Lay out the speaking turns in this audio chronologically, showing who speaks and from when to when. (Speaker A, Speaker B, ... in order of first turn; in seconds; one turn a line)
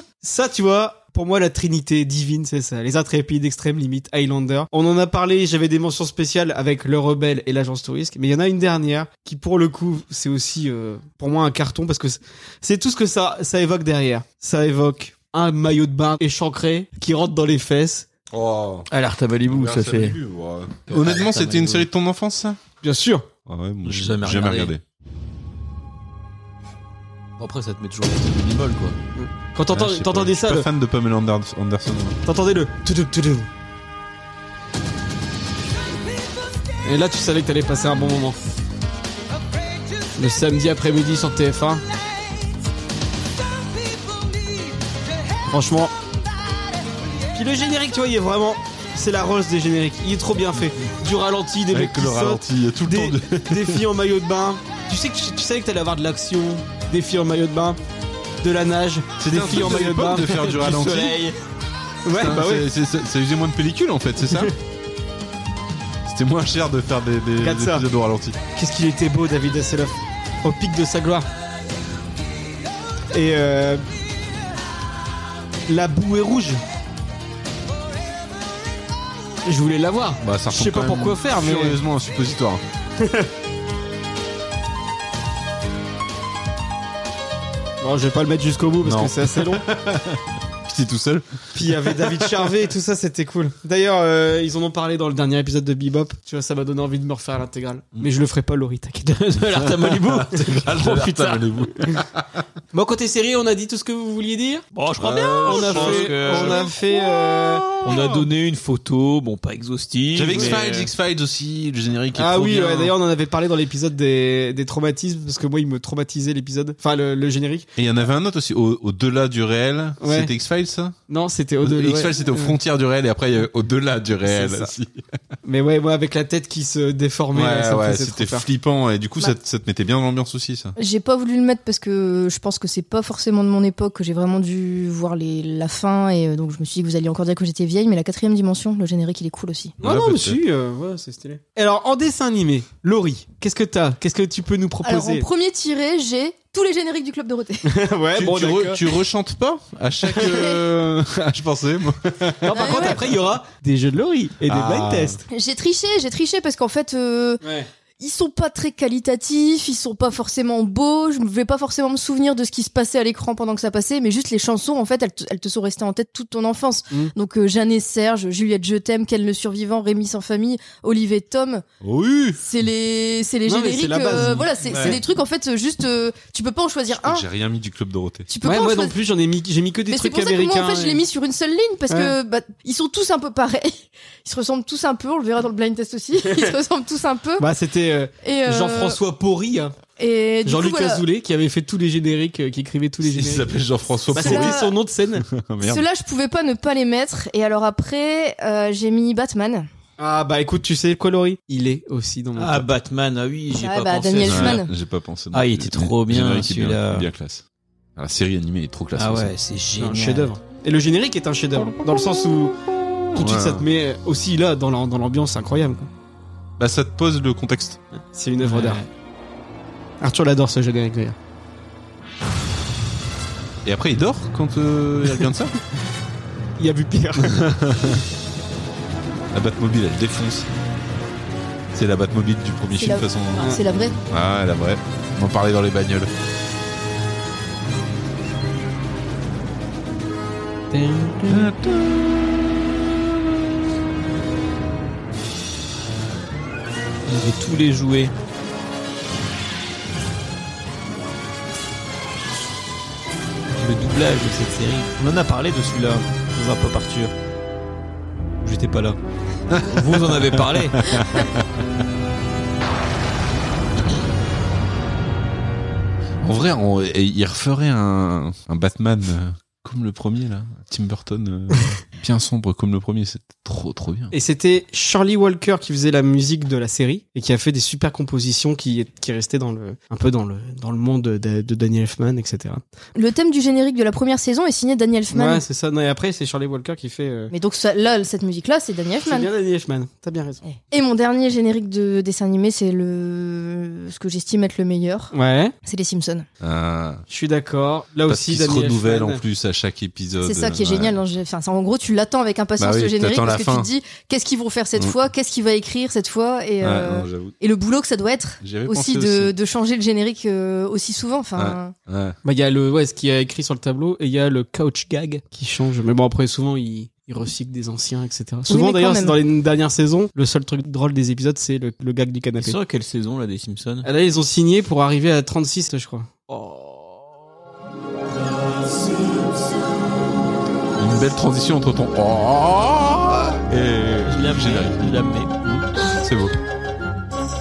Speaker A: 0.2-18.1
Speaker B: 18.3-18.9
Speaker C: 18.9-20.1
Speaker B: 19.5-22.6
Speaker C: 20.9-21.9
Speaker A: 22.8-23.3
Speaker B: 23.5-24.8
Speaker C: 23.8-24.7
Speaker C: 27.4-28.9
Speaker A: 29.1-30.7
Speaker B: 29.7-32.2
Speaker A: 32.2-33.5
Speaker A: 36.8-38.4
Speaker A: 40.1-41.8
Speaker A: 45.5-45.9
Speaker A: 47.3-57.8
Speaker B: 51.7-53.8
Speaker A: 58.4-60.5
Speaker B: 59.2-61.2
Speaker C: 60.4-61.4
Speaker A: 62.0-62.6
Speaker B: 62.1-64.5
Speaker B: 66.0-68.4
Speaker A: 67.4-67.8
Speaker A: 68.5-71.3
Speaker A: 73.1-73.8
Speaker A: 75.7-76.6
Speaker A: 79.4-81.8
Speaker B: 80.2-82.6
Speaker A: 83.0-83.3
Speaker A: 87.8-89.6
Speaker B: 88.8-92.1
Speaker A: 91.5-99.2
Speaker C: 99.2-101.5
Speaker B: 99.6-102.3
Speaker A: 102.7-104.6
Speaker C: 104.7-106.7
Speaker B: 105.0-108.3
Speaker A: 105.4-107.8
Speaker C: 107.8-110.9
Speaker B: 110.1-112.9
Speaker A: 110.3-110.6
Speaker A: 112.1-117.7
Speaker B: 117.8-121.0
Speaker A: 120.0-120.3
Speaker A: 121.1-122.5
Speaker B: 121.6-125.0
Speaker A: 124.2-124.7
Speaker A: 125.4-128.4
Speaker B: 127.3-130.7
Speaker D: 130.8-139.7
Speaker B: 139.8-140.4
Speaker A: 139.8-145.3
Speaker D: 144.8-147.6
Speaker A: 147.7-148.8
Speaker B: 148.1-153.1
Speaker A: 150.2-150.5
Speaker A: 152.4-155.2
Speaker D: 152.5-153.0
Speaker B: 154.5-155.2
Speaker D: 155.3-157.4
Speaker A: 157.4-157.7
Speaker D: 158.0-171.6
Speaker B: 171.8-172.4
Speaker D: 172.4-177.2
Speaker A: 173.5-175.0
Speaker B: 174.7-175.0
Speaker B: 176.9-178.3
Speaker D: 178.3-178.9
Speaker A: 178.4-181.0
Speaker D: 179.9-187.4
Speaker A: 187.4-189.7
Speaker D: 188.2-189.0
Speaker D: 190.0-191.0
Speaker A: 190.4-193.5
Speaker B: 193.0-194.7
Speaker A: 194.1-195.2
Speaker D: 194.1-194.7
Speaker B: 195.2-195.8
Speaker D: 195.6-199.7
Speaker A: 200.0-202.7
Speaker C: 202.3-204.6
Speaker D: 203.6-204.7
Speaker B: 204.2-207.4
Speaker C: 205.3-207.1
Speaker B: 207.9-209.3
Speaker C: 208.9-210.3
Speaker A: 209.8-212.5
Speaker B: 213.1-213.7
Speaker A: 213.1-215.9
Speaker B: 216.6-217.8
Speaker A: 218.1-218.8
Speaker C: 218.4-218.9
Speaker A: 220.0-221.2
Speaker B: 223.6-225.5
Speaker A: 226.6-227.4
Speaker B: 227.2-228.0
Speaker B: 229.3-230.5
Speaker B: 231.7-233.5
Speaker D: 232.7-234.0
Speaker B: 234.1-236.1
Speaker A: 240.7-241.5
Speaker B: 241.3-242.1
Speaker C: 247.1-248.1
Speaker C: 253.5-257.1
Speaker C: 258.4-259.0
Speaker B: 259.5-261.4
Speaker C: 259.6-260.9
Speaker B: 266.2-274.1
Speaker A: 274.1-282.6
Speaker D: 282.9-285.4
Speaker A: 285.1-287.3
Speaker D: 287.3-289.3
Speaker A: 289.0-290.4
Speaker D: 290.4-295.1
Speaker A: 295.1-295.5
Speaker D: 295.6-296.2
Speaker B: 296.4-297.0
Speaker A: 297.1-299.2
Speaker B: 298.1-301.0
Speaker D: 300.2-311.7
Speaker B: 302.6-303.7
Speaker B: 306.6-307.3
Speaker B: 308.4-309.3
Speaker B: 311.4-312.2
Speaker A: 312.2-322.6
Speaker D: 318.5-319.2
Speaker C: 322.4-323.9
Speaker A: 323.8-326.1
Speaker C: 326.3-326.8
Speaker B: 330.8-334.8
Speaker C: 334.1-335.5
Speaker B: 335.8-336.3